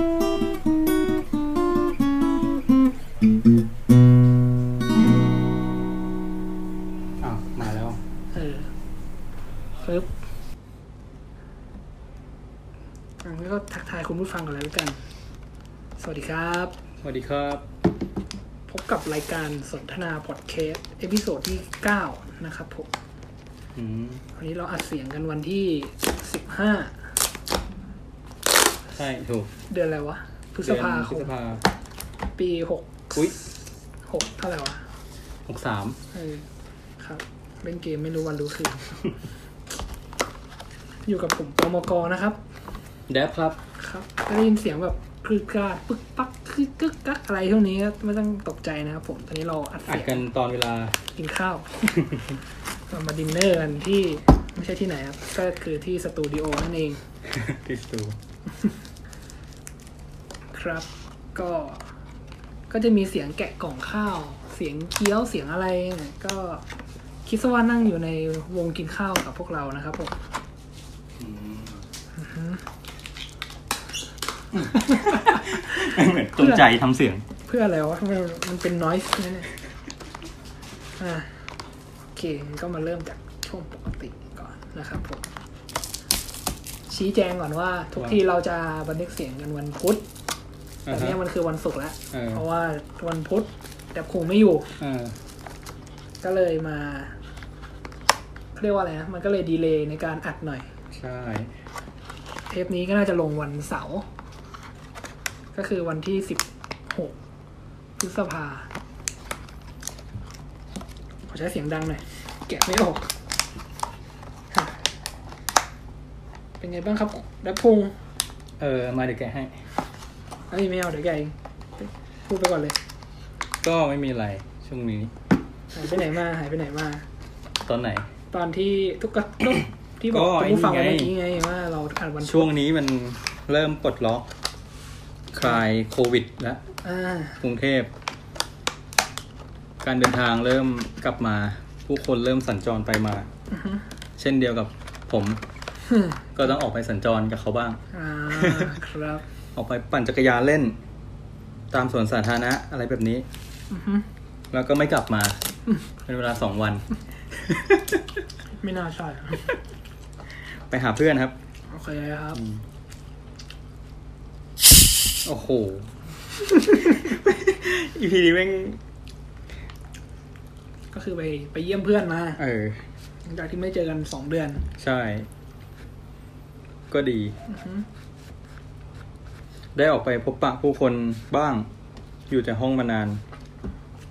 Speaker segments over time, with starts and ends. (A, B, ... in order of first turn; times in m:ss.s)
0:07.2-0:08.0 A
0:08.3-0:08.7 B
0:09.8-0:10.1 B
0:13.2-0:15.0 B
0:16.0-0:16.7 B
0:17.0-0:17.6 A
0:18.7-0:22.9 B
0:23.8-0:24.2 A
0:24.4-0:27.0 B
0:28.9-0:29.5 A
0:29.7-0:31.3 B
0:30.6-0:31.6 A
0:32.4-0:33.4 B
0:34.1-0:34.8 B
0:35.5-0:36.0 A
0:36.1-0:36.4 B
0:37.0-0:39.0 B
0:41.1-0:42.4 B
0:43.1-0:43.6 A
0:43.8-0:50.2 B
0:49.9-0:51.0 A
0:51.2-0:52.2 B
0:52.9-0:57.0 B
0:57.2-0:58.2 A
1:00.5-1:01.9 B
1:02.7-1:06.6 B
1:07.3-1:10.2 B
1:11.2-1:11.8 A
1:12.2-1:12.6 B
1:14.5-1:17.2 A
1:14.8-1:15.6 B
1:16.4-1:16.7 B
1:17.4-1:19.5 B
1:21.0-1:21.3 B
1:22.2-1:25.2 B
1:26.9-1:30.0 B
1:30.9-1:31.2 A
1:30.9-1:34.7 B
1:32.1-1:32.4 A
1:34.8-1:35.2 A
1:36.2-1:37.2 B
1:38.6-1:40.7 B
1:40.9-1:41.5 A
1:42.5-1:44.1 B
1:45.6-1:47.1 B
1:48.0-1:48.7 B
1:51.3-1:53.1 B
1:56.6-1:58.0 B
1:58.6-1:59.5 A
2:00.5-2:02.8 B
2:03.6-2:05.1 A
2:05.7-2:07.0 B
2:07.6-2:08.1 A
2:08.3-2:12.5 B
2:10.1-2:11.1 A
2:12.2-2:14.3 A
2:15.3-2:16.6 A
2:16.8-2:17.4 B
2:17.4-2:17.9 A
2:19.8-2:23.3 A
2:23.5-2:23.8 B
2:24.2-2:25.4 A
2:25.9-2:26.3 B
2:26.4-2:28.8 A
2:27.9-2:29.2 B
2:29.5-2:30.8 A
2:31.7-2:33.3 A
2:33.7-2:34.1 B
2:34.5-2:35.4 A
2:36.0-2:38.0 A
2:38.6-2:39.5 B
2:40.7-2:41.4 A
2:41.7-2:42.4 B
2:42.4-2:42.6 A
2:45.2-2:45.9 A
2:46.6-2:48.8 A
2:50.9-2:52.4 B
2:52.4-2:52.8 A
2:53.3-2:54.7 B
2:54.8-2:55.3 A
2:56.9-2:57.3 A
2:57.5-2:57.9 B
2:59.8-3:01.7 A
3:02.3-3:03.2 A